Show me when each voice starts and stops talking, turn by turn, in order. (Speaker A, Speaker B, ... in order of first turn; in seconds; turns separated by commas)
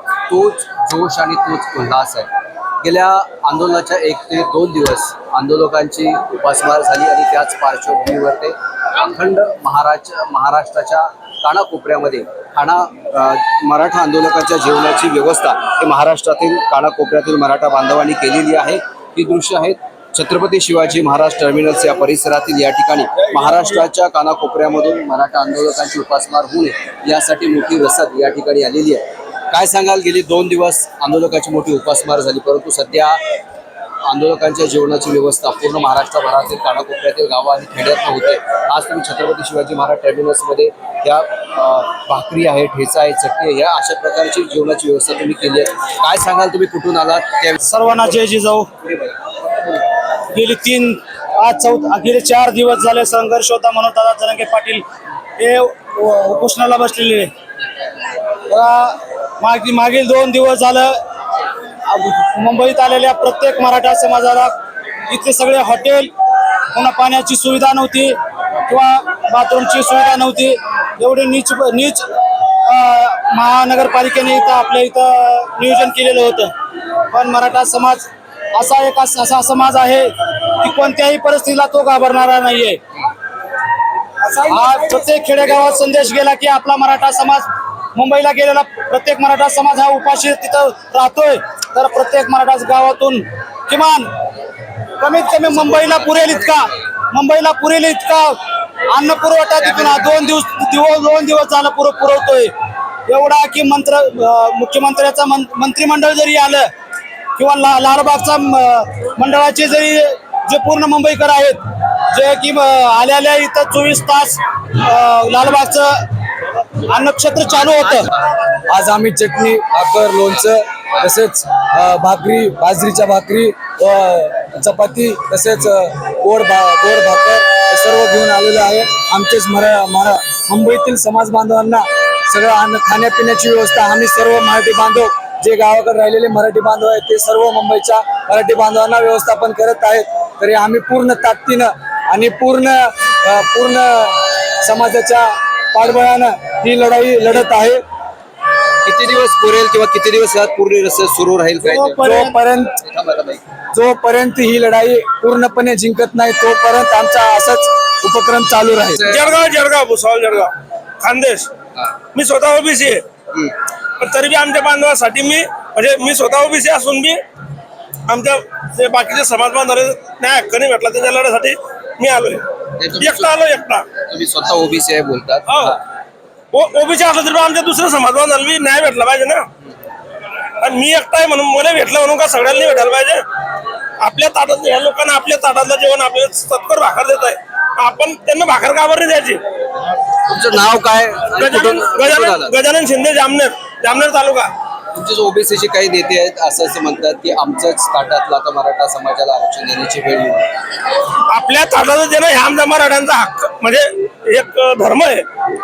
Speaker A: 0.3-2.3, Speaker A: 2.8-33.2, Speaker A: 34.0-48.2, Speaker B: 47.6-48.7, Speaker A: 48.8-49.8, Speaker B: 50.3-54.8, Speaker B: 55.4-57.3, Speaker B: 58.3-61.0, Speaker B: 61.9-64.5, Speaker B: 65.1-66.1, Speaker B: 66.7-76.5, Speaker B: 77.1-82.8, Speaker B: 84.3-94.1, Speaker C: 84.5-84.9, Speaker B: 95.0-98.4, Speaker A: 95.3-96.7, Speaker B: 98.9-102.5, Speaker A: 99.6-100.3, Speaker B: 103.1-106.7, Speaker B: 107.4-116.1, Speaker B: 116.8-118.1, Speaker C: 118.7-147.8, Speaker A: 148.8-152.2, Speaker B: 151.6-152.4, Speaker C: 152.0-152.8, Speaker A: 152.8-153.4, Speaker C: 153.7-159.0, Speaker A: 158.9-159.4, Speaker D: 159.1-161.5, Speaker D: 162.1-163.1, Speaker D: 164.0-167.2, Speaker D: 168.1-172.4, Speaker A: 172.8-175.8, Speaker D: 173.0-173.9, Speaker D: 175.5-175.8, Speaker D: 176.5-179.5, Speaker D: 180.6-183.2, Speaker D: 184.0-189.4, Speaker A: 189.9-192.6, Speaker D: 191.4-194.5, Speaker A: 194.9-200.6, Speaker D: 200.9-205.3